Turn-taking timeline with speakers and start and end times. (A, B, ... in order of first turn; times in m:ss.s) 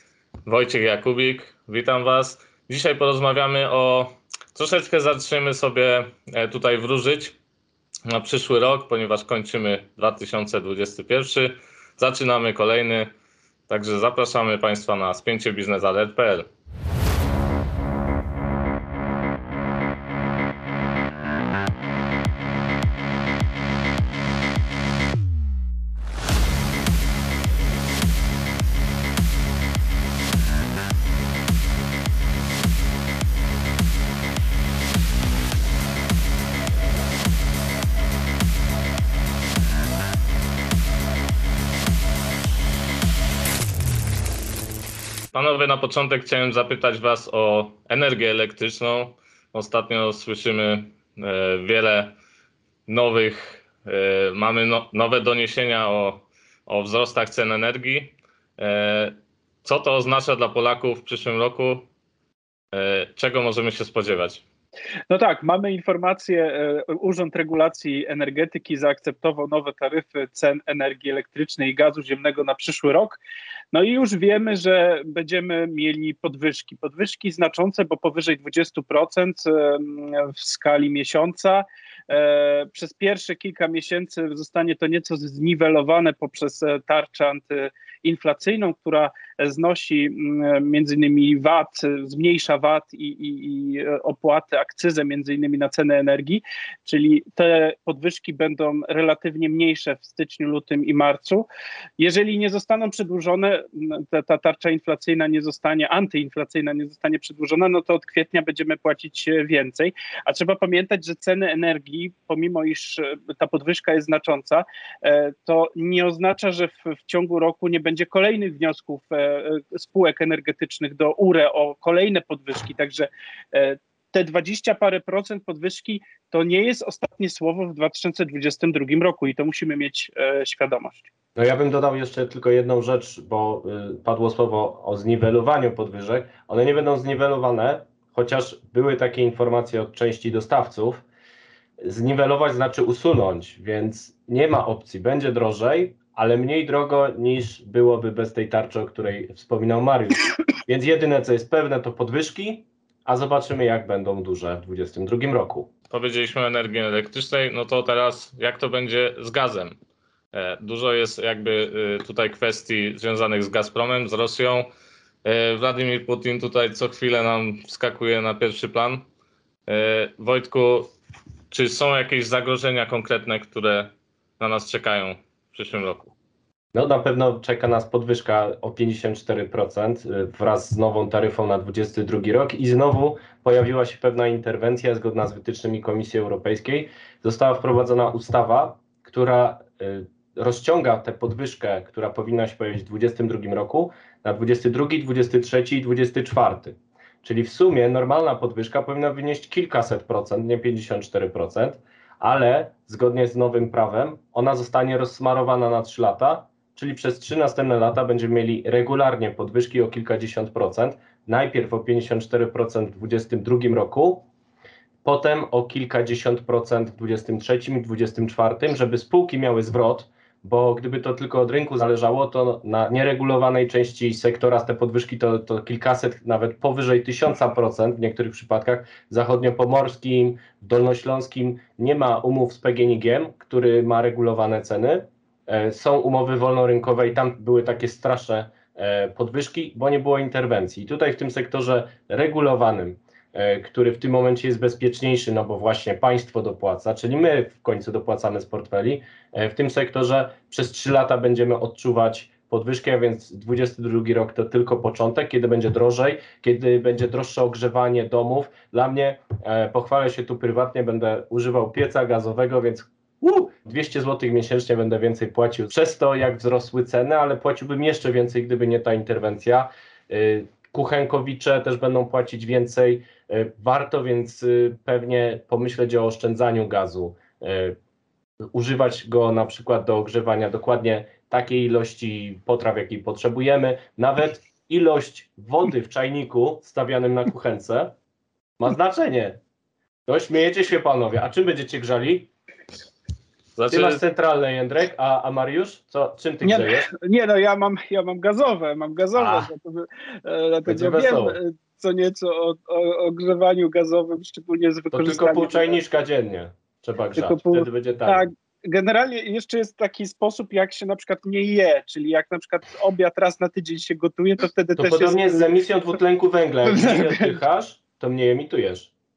0:00.5-0:07.4 A
0:08.1-0:13.1 A
0:13.7-0:16.5 A
0:45.3-0:52.1 A
0:52.9-1:01.9 A
1:02.7-1:04.4 A
1:05.1-1:13.2 B
1:13.7-1:41.5 B
1:42.0-2:11.1 B
2:11.4-2:21.0 C
2:21.8-2:35.7 C
2:35.9-2:39.8 A
2:40.3-2:44.7 A
2:45.2-2:49.0 A
2:49.7-2:50.9 A
2:51.5-2:56.1 A
2:56.7-3:34.3 C
3:35.0-4:37.8 C
4:38.5-4:47.9 C
4:48.6-4:49.4 C
4:50.1-4:52.3 C
4:53.6-4:54.0 A
4:53.7-4:56.9 C
4:56.4-5:05.8 B
4:59.2-4:59.5 C
5:00.7-5:01.4 C
5:04.9-5:08.2 C
5:07.2-5:15.5 B
5:14.8-5:18.9 C
5:16.7-5:17.3 B